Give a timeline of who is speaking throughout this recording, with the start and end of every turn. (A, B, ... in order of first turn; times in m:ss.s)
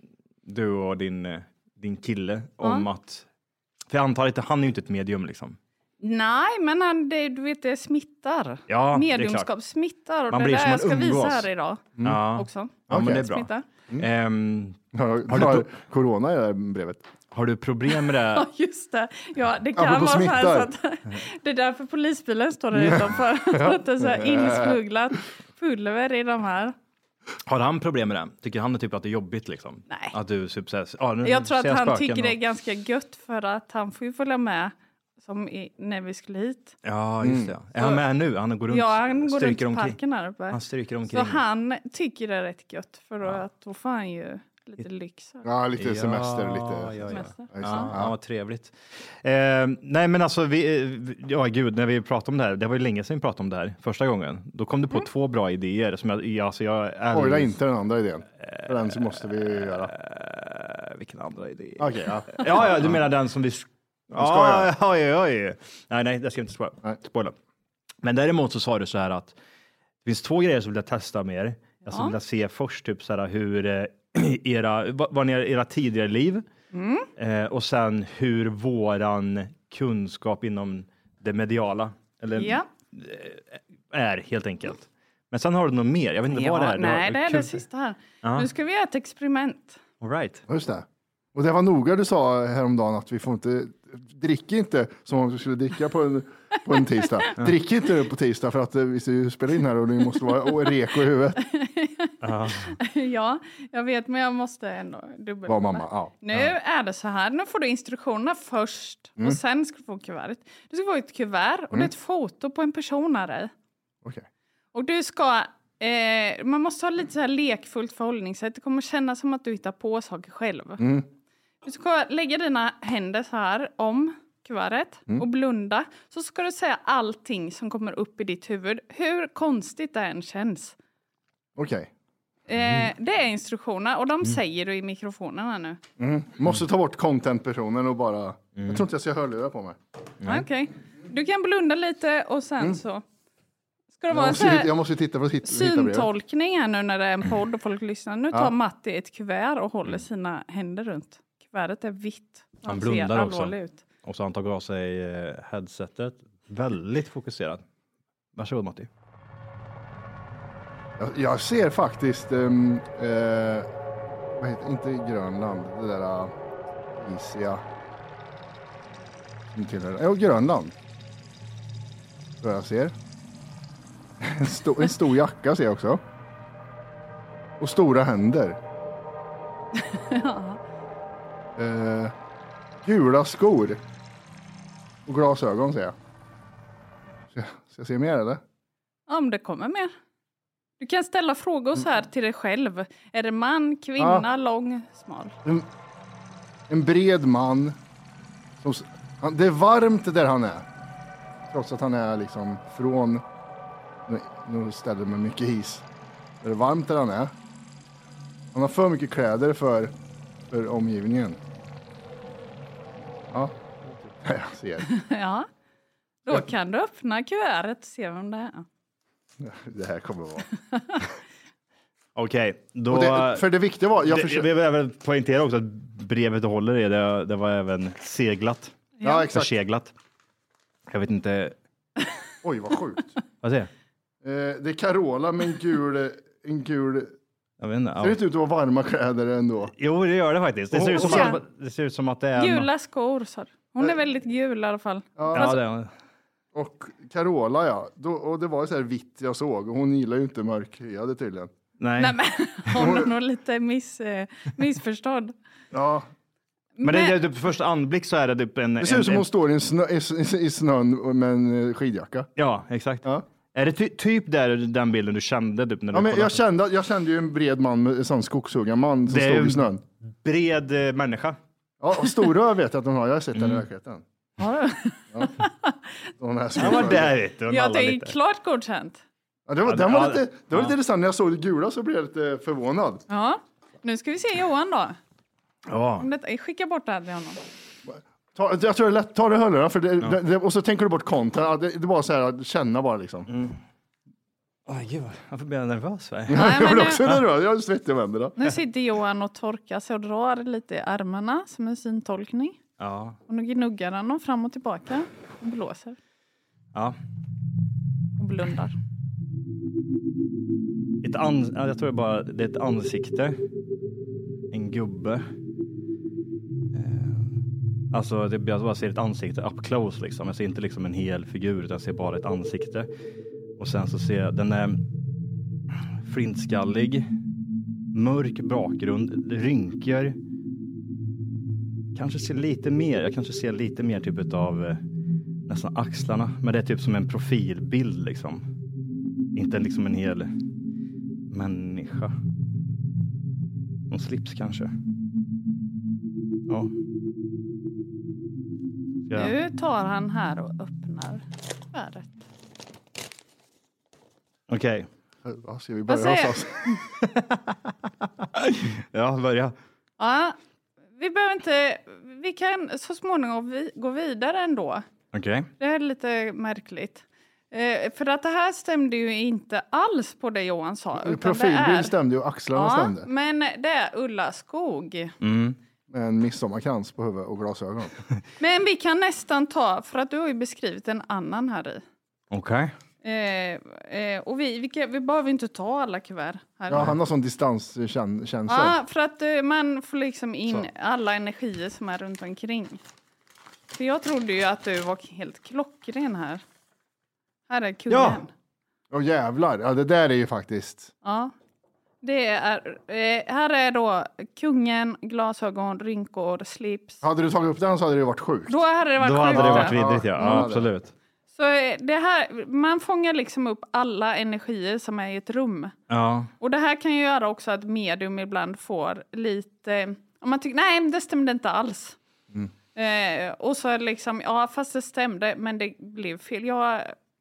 0:00.4-0:03.2 A
0:03.9-0:05.6 A
0:06.0-0:11.8 B
0:08.7-0:09.5 A
0:10.3-0:11.5 A
0:12.0-0:14.8 A
0:12.3-0:13.6 B
0:12.9-0:13.3 C
0:14.9-0:17.0 C
0:15.3-0:15.7 A
0:17.3-0:18.4 A
0:18.0-0:26.7 B
0:19.8-0:20.7 C
0:23.5-0:24.8 C
0:27.5-0:32.4 A
0:29.9-0:30.1 B
0:31.2-0:36.8 B
0:36.8-0:40.0 A
0:37.2-0:37.5 C
0:37.8-0:38.0 B
0:38.7-0:45.4 B
0:40.5-0:41.4 A
0:45.4-0:48.1 C
0:45.8-0:57.6 A
0:47.1-0:47.9 B
0:57.1-0:59.9 C
0:58.4-1:07.3 A
1:01.8-1:03.0 C
1:04.1-1:04.7 C
1:08.0-1:09.4 A
1:10.0-1:16.4 A
1:11.9-1:12.1 B
1:16.7-1:17.1 B
1:17.2-1:27.6 A
1:22.4-1:22.6 B
1:26.3-1:29.8 B
1:28.2-1:28.5 A
1:30.0-1:30.4 A
1:30.5-1:41.4 C
1:41.4-1:53.5 B
1:42.2-1:42.7 A
1:45.5-1:46.1 C
1:54.7-2:00.8 B
2:00.8-2:01.1 C
2:01.6-2:10.7 B
2:11.6-2:11.9 C
2:12.5-2:15.8 B
2:12.6-2:12.9 A
2:16.0-2:19.8 C
2:18.6-2:18.8 A
2:20.2-2:20.5 A
2:20.2-2:23.0 B
2:24.0-2:24.7 B
2:24.1-2:26.1 C
2:25.4-2:33.8 B
2:32.7-2:37.6 A
2:38.4-2:38.9 A
2:41.0-2:43.7 C
2:44.4-2:46.3 C
2:46.9-2:47.6 C
2:49.6-2:50.7 C
2:52.4-2:52.9 C
2:54.2-2:56.0 C
2:57.6-2:58.6 C
2:59.7-3:00.6 B
3:01.6-3:02.1 C
3:02.8-3:03.8 C
3:05.1-3:05.9 C
3:07.3-3:08.4 C
3:09.1-3:09.9 B
3:10.8-3:15.4 B
3:14.0-3:14.2 C
3:16.7-3:17.7 C
3:18.6-3:20.6 C
3:21.5-3:23.2 C
3:24.1-3:25.8 C
3:26.4-3:27.3 C
3:28.5-3:29.9 C
3:30.5-3:31.4 C
3:33.3-3:34.9 C
3:34.9-3:35.5 B
3:36.2-3:38.6 B
3:39.4-3:40.5 C
3:40.7-3:41.0 B
3:42.2-3:43.5 A
3:42.9-3:44.5 C
3:44.0-3:49.9 A
3:49.0-3:49.3 B
3:49.0-3:49.5 C
3:50.9-3:51.6 A
3:52.4-3:53.1 C
3:53.4-3:53.7 A
3:54.2-3:57.1 C
3:57.6-3:58.2 A
3:58.0-3:59.7 C
3:59.8-4:02.7 A
4:00.7-4:01.4 C
4:00.9-4:01.4 B
4:02.4-4:05.6 B
4:05.2-4:05.6 C
4:05.3-4:05.9 A
4:06.5-4:11.5 C
4:11.8-4:12.1 A
4:12.0-4:15.3 B
4:12.8-4:13.1 C
4:15.7-4:16.1 C
4:16.8-4:17.2 B
4:16.8-4:19.3 A
4:18.8-4:22.3 C
4:22.4-4:26.4 A
4:25.9-4:29.8 C
4:29.1-4:29.7 A
4:30.2-4:31.4 A
4:31.8-4:34.0 C
4:33.4-4:33.6 A
4:34.4-4:35.8 B
4:36.2-4:37.1 C
4:36.6-4:37.0 B
4:36.6-4:38.1 A
4:37.5-4:39.0 B
4:39.5-4:43.0 C
4:39.6-4:40.8 A
4:43.1-4:45.0 B
4:45.7-4:46.1 A
4:46.0-4:47.4 B
4:47.9-4:53.3 C
4:53.3-4:53.6 A
4:54.7-4:57.1 A
4:56.3-4:58.4 C
4:56.3-4:57.0 B
4:58.4-5:02.6 B
5:02.8-5:03.2 A
5:03.3-5:06.0 B
5:08.2-5:08.7 B
5:11.0-5:13.4 A
5:14.5-5:15.2 A
5:16.7-5:17.4 A
5:17.9-5:22.9 A
5:23.6-5:24.8 A
5:26.0-5:27.1 A
5:27.9-5:30.2 A
5:31.9-5:34.8 A
5:35.5-5:38.4 A
5:39.4-5:40.3 A
5:41.3-5:42.1 A
5:43.9-5:44.7 A
5:49.1-5:49.3 A
5:49.1-5:52.1 B
5:54.5-5:54.9 A
5:55.2-5:56.8 C
5:55.9-5:56.4 B
5:57.0-5:57.6 A
5:58.4-5:59.5 A
6:00.0-6:00.4 B
6:01.0-6:04.9 B
6:05.1-6:05.5 A
6:05.6-6:11.9 B
6:11.0-6:13.1 C
6:12.5-6:15.2 B
6:15.2-6:15.6 A
6:15.9-6:18.0 C
6:18.4-6:21.8 B
6:22.3-6:22.7 A
6:23.0-6:26.8 B
6:26.7-6:28.8 C
6:28.5-6:32.8 B
6:33.7-6:36.4 B
6:37.5-6:38.3 B
6:37.9-6:38.2 A
6:38.9-6:40.9 C
6:41.0-6:41.3 B
6:42.0-6:47.0 B
6:47.0-6:48.6 C
6:48.5-6:50.4 B
6:49.0-6:50.9 A
6:49.3-6:50.7 C
6:51.3-6:55.7 B
6:55.9-6:56.3 A
6:56.4-7:02.0 B
7:02.7-7:06.9 B